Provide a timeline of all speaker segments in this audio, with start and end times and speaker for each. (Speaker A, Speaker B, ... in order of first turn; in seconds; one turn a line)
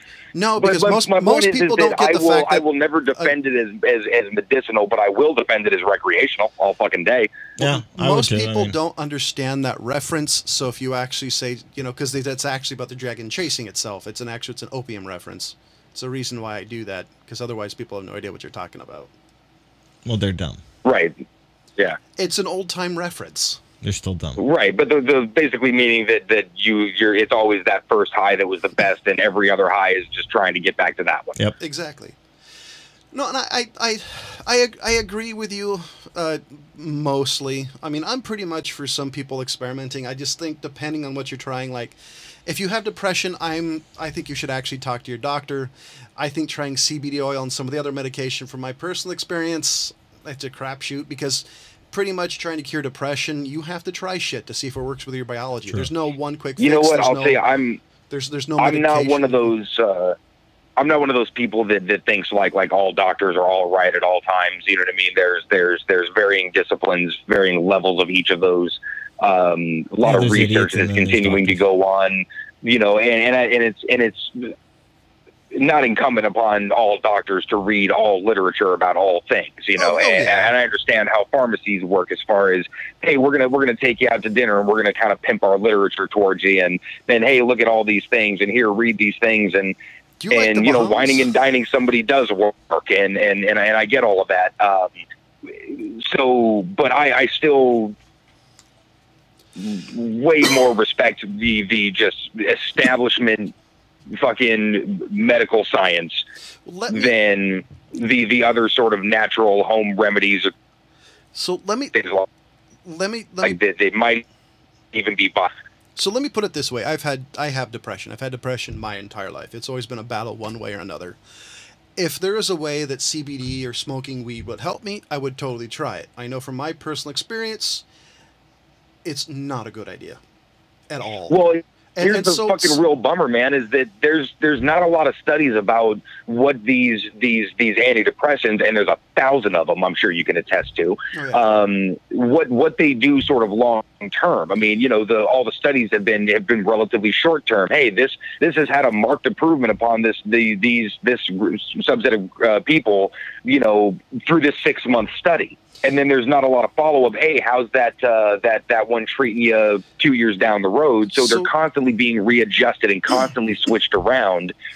Speaker A: 0.3-2.6
Speaker B: 0.6-7.3
Speaker C: 7.6-8.8
Speaker A: 7.6-19.1
Speaker C: 20.1-20.6
Speaker B: 20.9-21.2
Speaker A: 22.2-23.6
Speaker C: 23.8-24.4
Speaker B: 24.4-31.4
Speaker A: 31.6-32.2
Speaker A: 33.1-57.4
Speaker B: 56.6-57.8
Speaker A: 58.1-59.4
Speaker B: 58.6-60.2
Speaker B: 60.8-74.5
Speaker C: 70.0-71.6
Speaker B: 75.5-89.8
Speaker A: 79.8-80.5
Speaker A: 90.2-91.3
Speaker B: 90.3-94.9
Speaker B: 95.5-98.0
Speaker B: 99.6-103.5
Speaker B: 104.1-106.2
Speaker A: 106.7-107.1
Speaker B: 106.9-110.5
Speaker A: 111.3-112.0
Speaker B: 111.9-112.3
Speaker A: 112.8-113.6
Speaker B: 113.4-114.2
Speaker B: 114.9-115.5
Speaker A: 116.0-121.2
Speaker A: 122.0-127.8
Speaker A: 129.1-130.2
Speaker A: 130.9-131.3
Speaker B: 131.3-164.6
Speaker A: 132.0-132.8
Speaker A: 141.1-141.4
Speaker A: 161.2-161.5